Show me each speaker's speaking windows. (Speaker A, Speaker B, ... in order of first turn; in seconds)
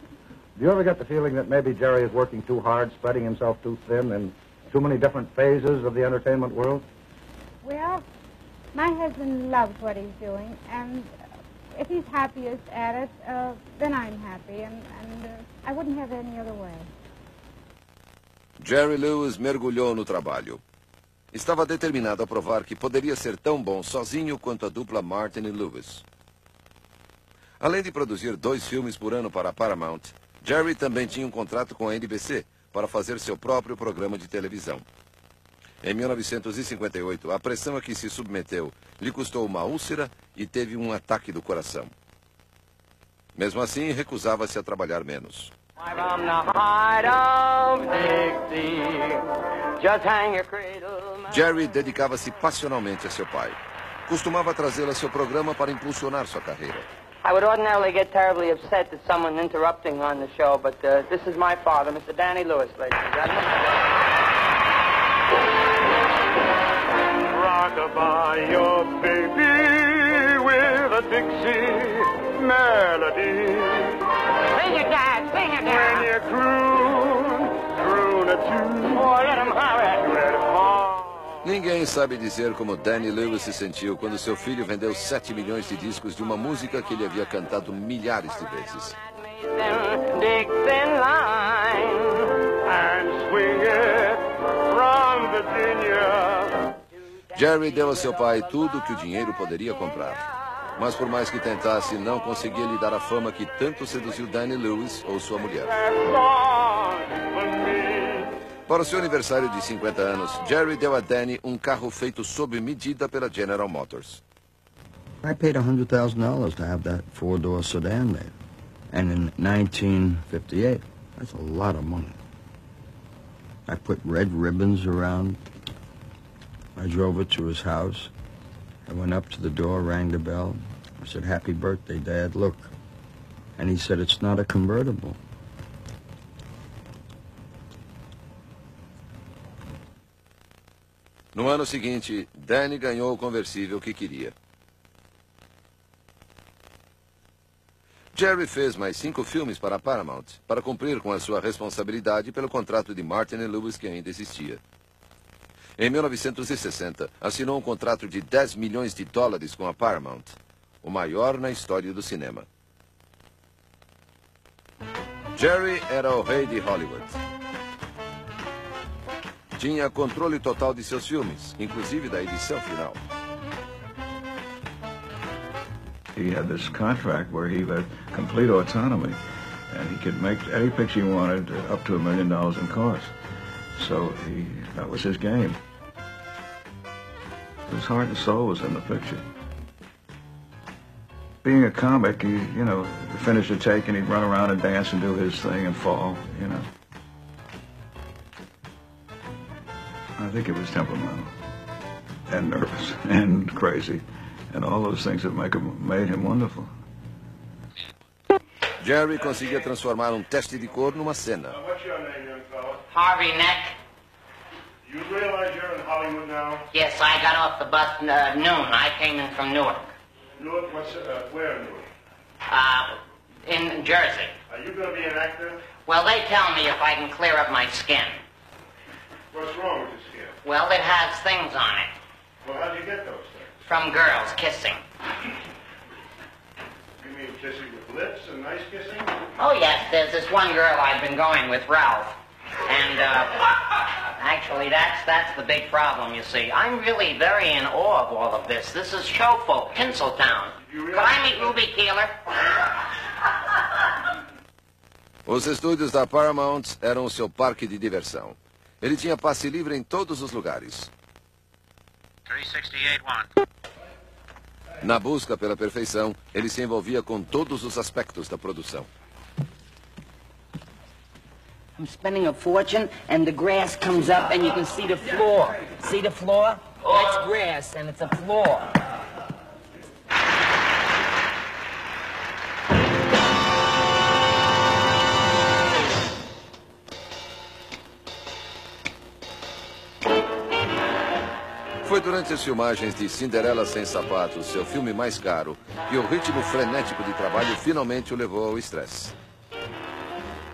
Speaker A: 0.6-6.8
Speaker B: 7.6-8.0, 8.7-11.1, 11.8-16.9
Speaker C: 18.6-20.6, 21.3-26.0, 27.6-34.9, 35.8-41.9, 43.4-45.5, 51.3-56.9, 81.4-89.0, 97.3-105.7, 108.7-114.2, 141.3-144.3, 148.1-154.6, 155.8-162.5, 165.4-167.2, 169.6-173.0, 208.8-211.6, 255.3-260.9, 264.8-268.9, 291.8-299.1
Speaker D: 45.8-49.2, 49.8-51.5, 57.2-63.7, 89.2-92.2
Speaker E: 67.2-74.0, 75.6-81.5, 92.6-96.7, 105.7-108.3, 211.5-212.8, 214.8-216.7, 220.3-221.9, 224.5-225.7, 229.3-230.4, 232.4-233.5, 237.0-239.2, 250.6-251.5
Speaker F: 74.5-75.6, 212.9-213.7, 216.7-219.8, 222.5-222.8, 223.5-224.3, 225.9-228.1, 230.4-231.9, 233.7-234.8, 239.4-242.1, 242.7-243.3, 244.2-250.5, 251.1-252.1, 271.8-278.7
Speaker G: 115.2-118.4, 118.9-122.2, 123.7-125.4, 126.8-128.1, 128.9-132.7, 133.6-135.2
Speaker H: 176.2-183.2, 183.8-185.6, 187.7-189.2, 191.4-196.7, 200.2-201.3, 202.3-206.7